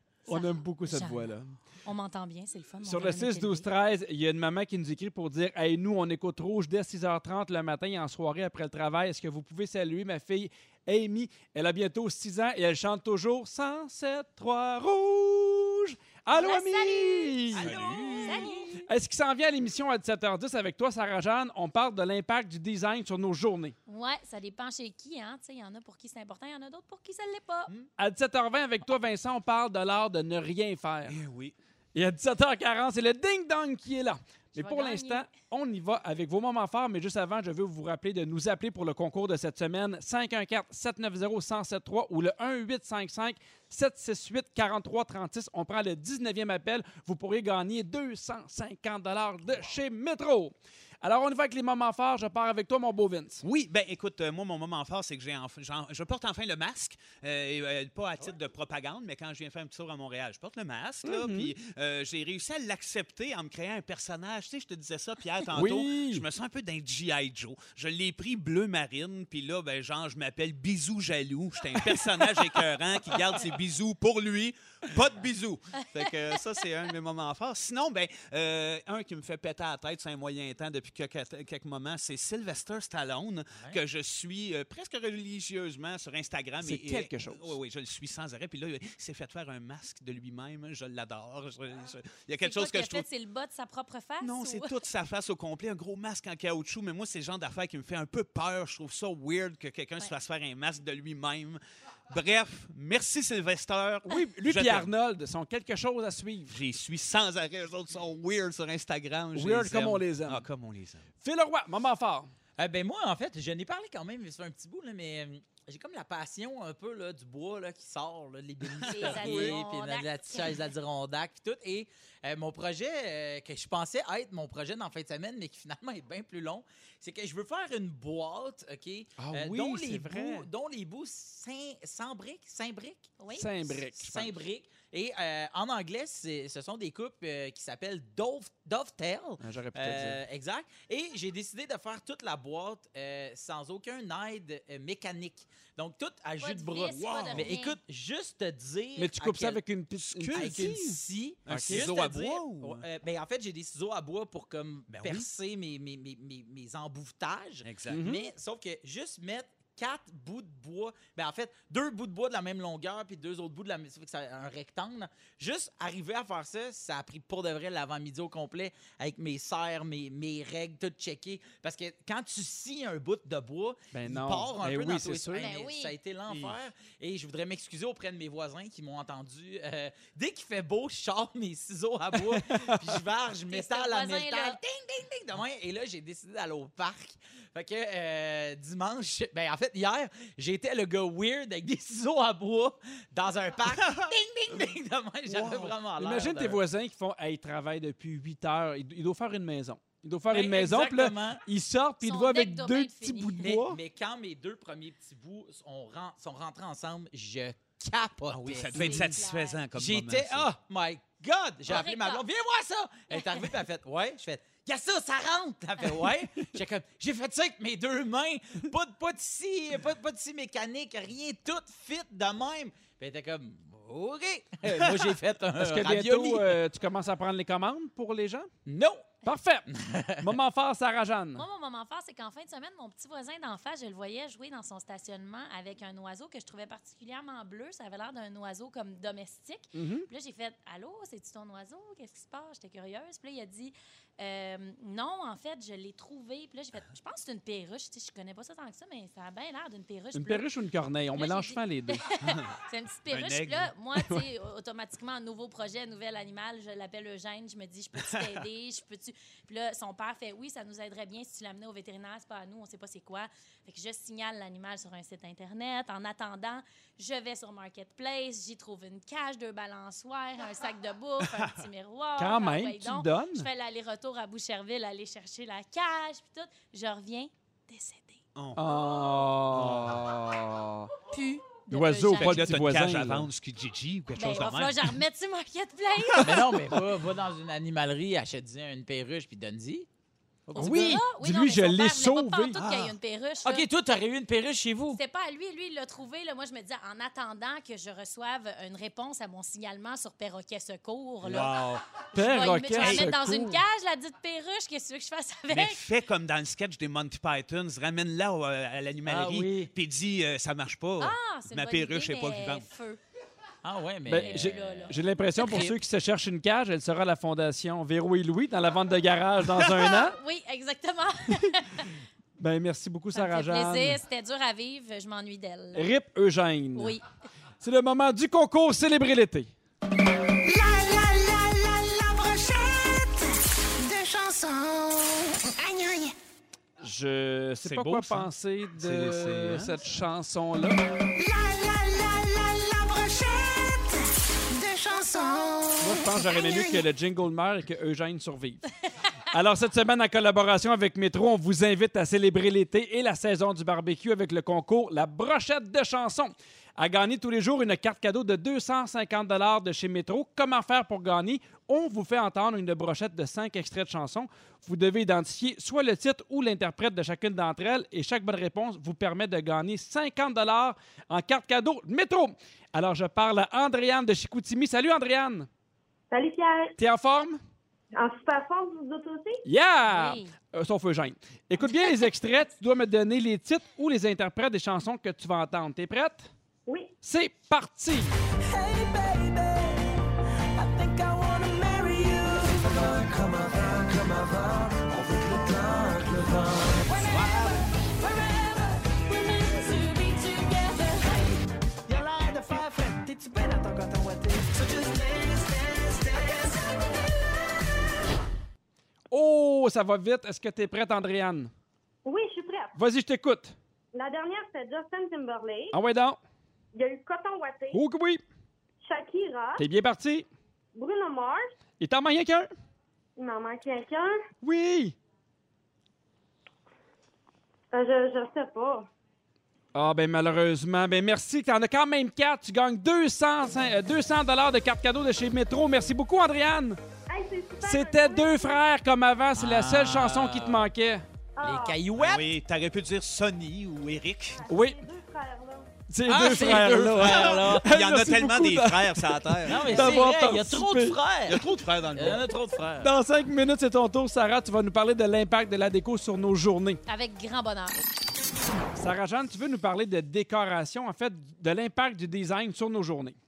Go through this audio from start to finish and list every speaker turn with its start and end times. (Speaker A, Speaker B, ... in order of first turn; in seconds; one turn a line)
Speaker A: 0.3-1.6
Speaker B: 0.3-1.3
Speaker B: 1.8-3.7
Speaker A: 2.8-23.8
Speaker B: 16.3-18.8
Speaker C: 17.6-18.8
Speaker D: 17.6-18.4
Speaker B: 23.9-27.7
Speaker A: 28.0-31.2
Speaker D: 31.1-31.6
Speaker A: 31.9-53.4
Speaker B: 34.6-35.3
Speaker D: 53.4-93.1
Speaker A: 61.0-61.5
Speaker A: 65.5-66.2
Speaker A: 86.6-87.6
Speaker B: 92.4-94.7
Speaker D: 94.2-104.9
Speaker A: 104.1-106.6
Speaker D: 106.5-111.1
Speaker A: 109.3-110.5
Speaker A: 111.2-112.3
Speaker C: 112.6-133.1
Speaker D: 118.8-119.6
Speaker B: 118.9-120.6
Speaker A: 129.2-130.5
Speaker B: 133.2-133.5
Speaker A: 133.3-134.3
Speaker C: 133.9-149.6
Speaker A: 139.4-140.2
Speaker B: 146.4-147.8
Speaker D: 146.9-147.5
Speaker A: 149.0-151.9
Speaker D: 150.0-150.9
Speaker C: 150.3-196.6
Speaker D: 151.4-152.8
Speaker D: 154.9-155.3
Speaker D: 157.6-158.1
Speaker A: 157.9-158.2
Speaker A: 173.9-175.5
Speaker B: 175.4-175.9
Speaker A: 182.3-183.0
Speaker B: 183.5-184.6
Speaker D: 193.8-194.1
Speaker D: 195.3-195.7
Speaker A: 195.3-203.8
Speaker C: 200.3-201.4
Speaker B: 202.0-203.6
Speaker C: 203.4-209.1
Speaker D: 208.3-210.5
Speaker B: 208.7-209.6
Speaker C: 209.7-226.6
Speaker B: 211.7-212.2
Speaker B: 213.1-213.5
Speaker A: 225.6-228.5
Speaker C: 228.7-229.1
Speaker A: 229.2-229.7
Speaker C: 229.7-230.3
Speaker A: 230.2-231.4
Speaker B: 231.4-250.5
Speaker A: 239.8-240.1
Speaker A: 250.1-252.0
Speaker B: 251.2-278.2
Speaker D: 253.1-253.7
Speaker A: 254.0-254.2
Speaker D: 258.0-258.4
Speaker D: 271.2-271.6
Speaker A: 272.2-273.5
Speaker D: 278.4-278.6
Speaker A: 278.6-280.9
Speaker D: 279.5-280.1
Speaker B: 281.1-282.5
Speaker A: 281.7-283.3
Speaker D: 282.2-284.9
Speaker B: 284.1-286.4
Speaker C: 286.2-289.9
Speaker C: 290.5-291.0
Speaker A: 290.5-292.6
Speaker B: 290.5-293.7
Speaker D: 292.6-292.9
Speaker C: 293.4-295.0
Speaker B: 294.9-301.6
Speaker D: 301.2-301.8
Speaker C: 301.3-301.8
Speaker B: 302.1-305.8
Speaker A: 302.1-303.6
Speaker D: 302.8-303.1
Speaker D: 305.5-312.7
Speaker A: 309.1-309.7
Speaker C: 309.1-309.5
Speaker B: 311.0-313.0
Speaker C: 313.6-315.7
Speaker A: 314.1-320.2
Speaker B: 314.2-315.0
Speaker B: 319.6-322.0
Speaker A: 322.4-324.0
Speaker B: 323.1-325.9
Speaker A: 325.7-327.0
Speaker B: 326.8-327.1
Speaker A: 327.6-329.5
Speaker E: 330.4-336.1
Speaker A: 336.8-340.8
Speaker D: 337.6-339.7
Speaker E: 341.1-346.8
Speaker A: 345.8-348.6
Speaker A: 349.3-375.5
Speaker F: 376.1-376.7
Speaker A: 376.8-377.4
Speaker F: 377.9-379.4
Speaker A: 379.4-386.3
Speaker B: 379.9-380.3
Speaker F: 386.7-386.9
Speaker A: 387.0-388.1
Speaker E: 388.5-389.9
Speaker E: 390.6-401.4
Speaker E: 402.0-406.6
Speaker A: 409.1-411.5
Speaker F: 412.1-412.8
Speaker A: 412.8-413.6
Speaker F: 413.9-415.8
Speaker A: 415.7-416.2
Speaker F: 416.7-417.8
Speaker A: 417.7-418.2
Speaker F: 418.8-419.6
Speaker A: 419.6-420.3
Speaker F: 420.8-421.5
Speaker A: 421.8-422.5
Speaker F: 423.2-424.1
Speaker A: 424.4-425.0
Speaker F: 427.7-428.9
Speaker A: 429.7-436.8
Speaker F: 437.1-438.7
Speaker A: 437.6-441.1
Speaker C: 439.4-440.7
Speaker F: 441.4-441.8
Speaker C: 441.4-442.3
Speaker D: 442.0-444.4
Speaker F: 444.4-445.7
Speaker A: 444.5-444.8
Speaker A: 445.9-451.0
Speaker C: 446.1-447.7
Speaker D: 446.9-450.0
Speaker C: 449.4-452.9
Speaker D: 451.3-452.3
Speaker A: 452.8-456.8
Speaker B: 456.9-457.8
Speaker A: 458.8-463.2